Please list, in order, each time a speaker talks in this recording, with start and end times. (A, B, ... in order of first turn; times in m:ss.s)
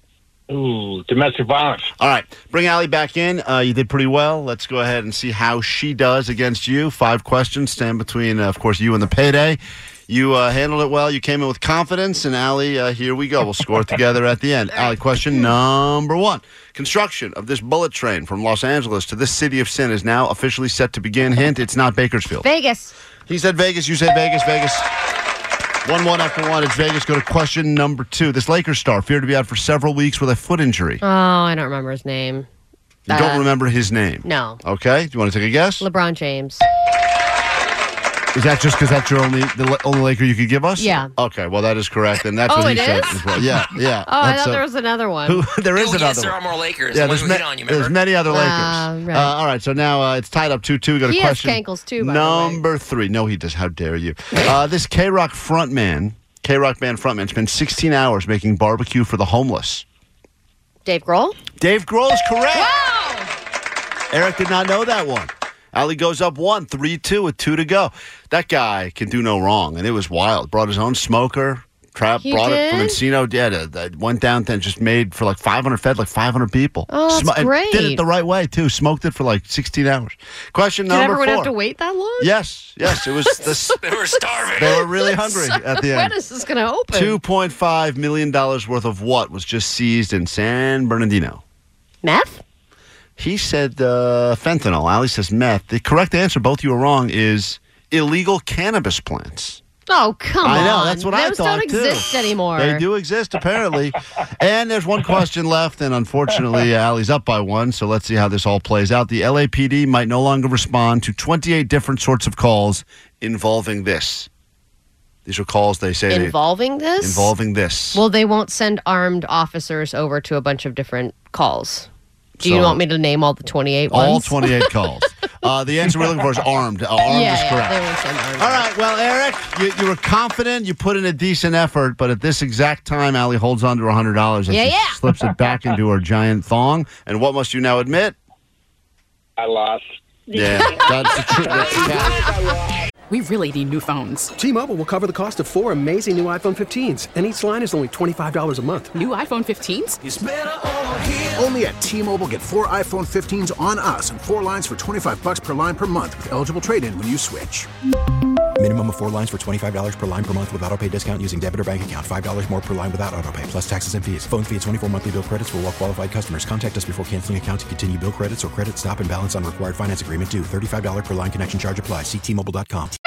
0:00.5-0:01.9 A
0:02.0-0:22.4 B
0:22.4-0:22.9 C
0:23.3-0:24.9 B
0:25.8-0:31.0 B
0:31.0-0:32.5 C
0:33.1-0:33.4 C
0:33.1-0:35.8 B
0:34.2-0:34.6 C
0:35.8-0:36.6 C
0:38.3-0:44.6 B
0:40.8-0:41.1 C
0:42.5-0:45.4 C
0:45.2-0:46.4 B
0:45.8-0:48.0 D
0:46.9-0:59.8 B
0:48.3-0:49.3 C
0:51.0-0:52.6 C
1:00.8-1:01.4 C
1:01.6-1:02.7 B
1:02.5-1:03.3 C
1:04.1-1:21.5 B
1:12.2-1:13.0 C
1:16.9-1:18.0 C
1:20.9-1:22.3 C
1:22.2-1:23.8 B
1:23.8-1:24.8 D
1:24.6-1:26.1 B
1:24.7-1:27.2 C
1:26.9-1:31.4 B
1:32.0-1:32.4 C
1:33.2-1:39.6 B
1:39.9-1:42.8 C
1:40.4-1:54.3 B
1:55.2-1:56.4 B
1:56.1-1:57.3 C
1:57.0-1:58.0 B
1:57.9-2:01.9 C
2:02.4-2:02.8 B
2:02.4-2:04.7 C
2:03.9-2:07.8 B
2:07.1-2:08.6 C
2:08.4-2:18.2 B
2:14.5-2:15.0 C
2:19.4-2:22.6 A
2:20.3-2:22.2 B
2:23.1-2:24.3 E
2:24.4-2:28.9 F
2:28.9-2:30.0 E
2:30.0-2:30.3 G
2:31.2-2:37.7 G
2:38.6-2:53.0 H